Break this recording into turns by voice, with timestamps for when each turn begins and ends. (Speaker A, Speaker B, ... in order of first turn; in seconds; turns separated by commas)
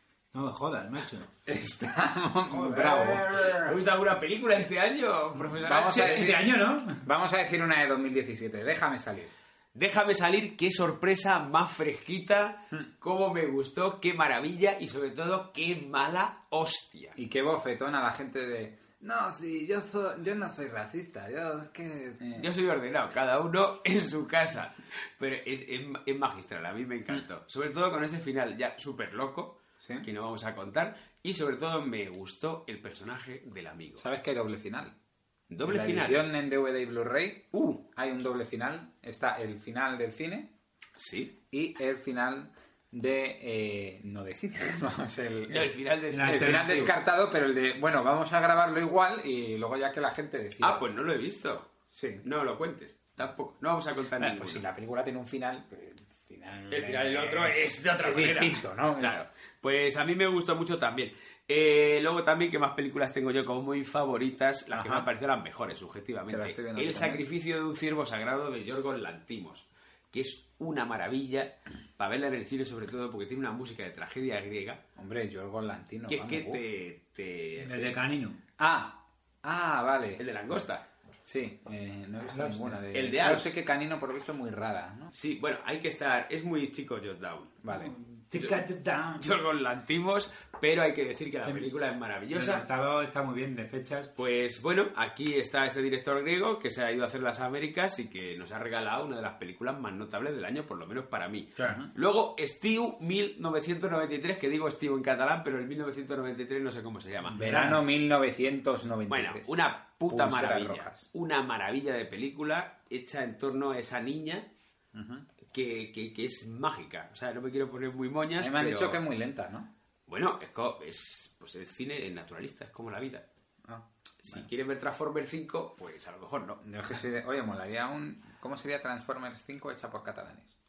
Speaker A: 0.3-1.3, Speaker B: 1.5-3.7, Speaker C: 2.7-6.3, Speaker B: 5.6-9.3, Speaker A: 5.9-7.0, Speaker C: 9.8-17.2, Speaker B: 17.2-22.5, Speaker C: 22.4-34.0, Speaker B: 34.0-34.9, Speaker C: 35.5-36.2, Speaker B: 35.6-40.5, Speaker C: 37.5-37.8, Speaker C: 41.0-41.3, Speaker B: 41.5-50.8, Speaker C: 45.5-46.6, Speaker A: 46.1-46.9, Speaker C: 50.6-51.7, Speaker B: 51.9-52.3, Speaker C: 52.2-54.6, Speaker B: 54.2-59.2, Speaker C: 56.7-74.8, Speaker B: 64.7-65.1, Speaker B: 66.3-67.2, Speaker B: 75.0-76.6, Speaker C: 76.1-78.0, Speaker A: 77.6-78.4, Speaker B: 78.6-80.2, Speaker C: 80.2-80.8, Speaker B: 81.2-85.1, Speaker A: 82.3-82.8, Speaker C: 82.9-83.6, Speaker C: 85.1-87.6, Speaker B: 87.6-87.9, Speaker A: 87.7-89.3, Speaker C: 88.3-88.6, Speaker C: 89.2-92.6, Speaker A: 92.3-94.1, Speaker C: 94.2-107.4, Speaker A: 101.6-101.8, Speaker A: 107.3-107.8, Speaker B: 107.3-109.5, Speaker C: 109.1-114.5, Speaker B: 110.1-111.1, Speaker B: 114.9-115.3, Speaker C: 115.5-119.0, Speaker B: 118.4-119.7, Speaker C: 120.1-123.2, Speaker B: 123.7-124.5, Speaker C: 124.2-126.6, Speaker B: 126.6-130.6